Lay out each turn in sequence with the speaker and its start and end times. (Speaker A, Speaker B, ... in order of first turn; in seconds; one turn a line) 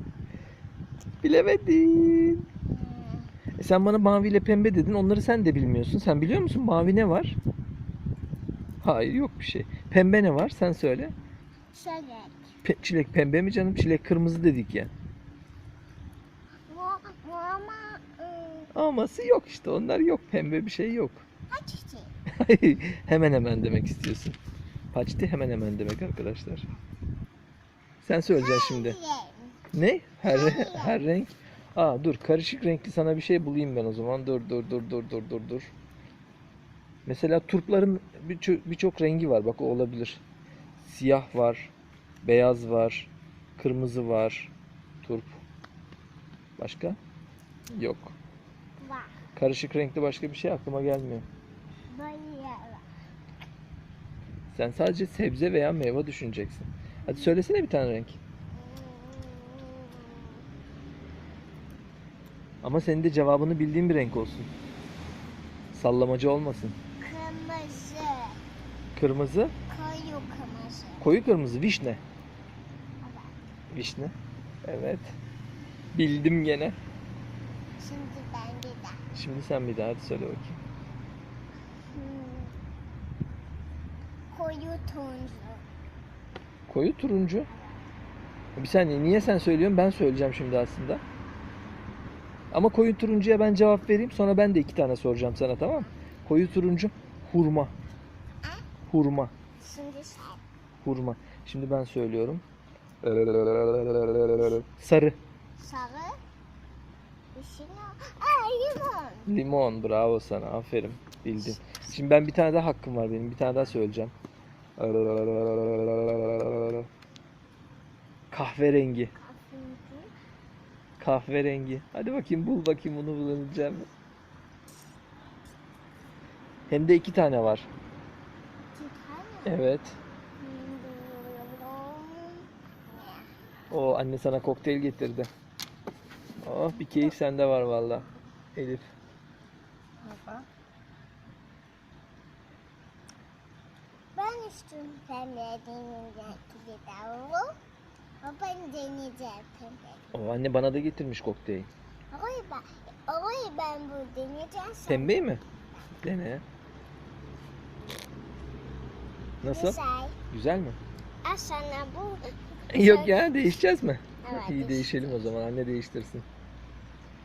Speaker A: 1.2-2.5
Speaker B: 2.7-3.3
Speaker A: 3.6-7.4
Speaker A: 8.8-11.1
Speaker B: 11.7-12.5
Speaker A: 12.6-14.9
Speaker B: 16.7-18.7
Speaker A: 18.7-21.2
Speaker B: 21.5-22.1
Speaker A: 22.4-24.4
Speaker A: 24.9-26.7
Speaker A: 28.0-29.0
Speaker B: 28.3-29.6
Speaker A: 29.7-35.7
Speaker B: 30.2-31.0
Speaker A: 37.1-40.2
Speaker A: 40.8-41.7
Speaker A: 42.2-45.4
Speaker A: 46.6-47.0
Speaker A: 47.7-48.2
Speaker B: 48.8-49.2
Speaker A: 49.4-51.3
Speaker B: 51.9-52.9
Speaker A: 54.5-58.2
Speaker B: 57.1-57.4
Speaker B: 58.5-60.5
Speaker A: 62.6-64.5
Speaker A: 65.7-66.8
Speaker B: 67.0-68.4
Speaker A: 69.0-69.5
Speaker B: 69.7-71.0
Speaker A: 71.0-72.0
Speaker B: 73.0-73.4
Speaker A: 73.7-74.1
Speaker A: 74.7-75.2
Speaker A: 75.9-76.8
Speaker B: 77.8-79.0
Speaker A: 79.1-80.6
Speaker B: 81.9-82.6
Speaker B: 84.3-85.7
Speaker A: 86.7-87.5
Speaker A: 88.6-91.0
Speaker A: 92.5-97.7
Speaker B: 95.6-95.9
Speaker A: 98.8-99.3
Speaker B: 99.6-100.4
Speaker A: 100.8-102.4
Speaker A: 103.0-105.2
Speaker B: 105.6-106.2
Speaker B: 107.3-109.3
Speaker A: 109.3-114.1
Speaker A: 114.8-116.9
Speaker A: 118.3-119.1
Speaker B: 119.2-120.1
Speaker A: 121.0-123.9
Speaker A: 126.7-127.7
Speaker B: 128.8-129.6
Speaker A: 129.4-130.0
Speaker B: 130.4-133.3
Speaker A: 133.7-135.3
Speaker A: 136.4-138.9
Speaker B: 140.0-140.4
Speaker B: 144.2-147.5
Speaker B: 148.2-150.1
Speaker A: 150.1-151.7
Speaker B: 152.1-155.2
Speaker A: 154.9-155.4
Speaker A: 156.0-156.4
Speaker A: 159.4-159.8
Speaker B: 159.4-160.2
Speaker A: 160.3-160.8
Speaker B: 161.2-163.3
Speaker A: 162.7-166.2
Speaker B: 164.2-165.3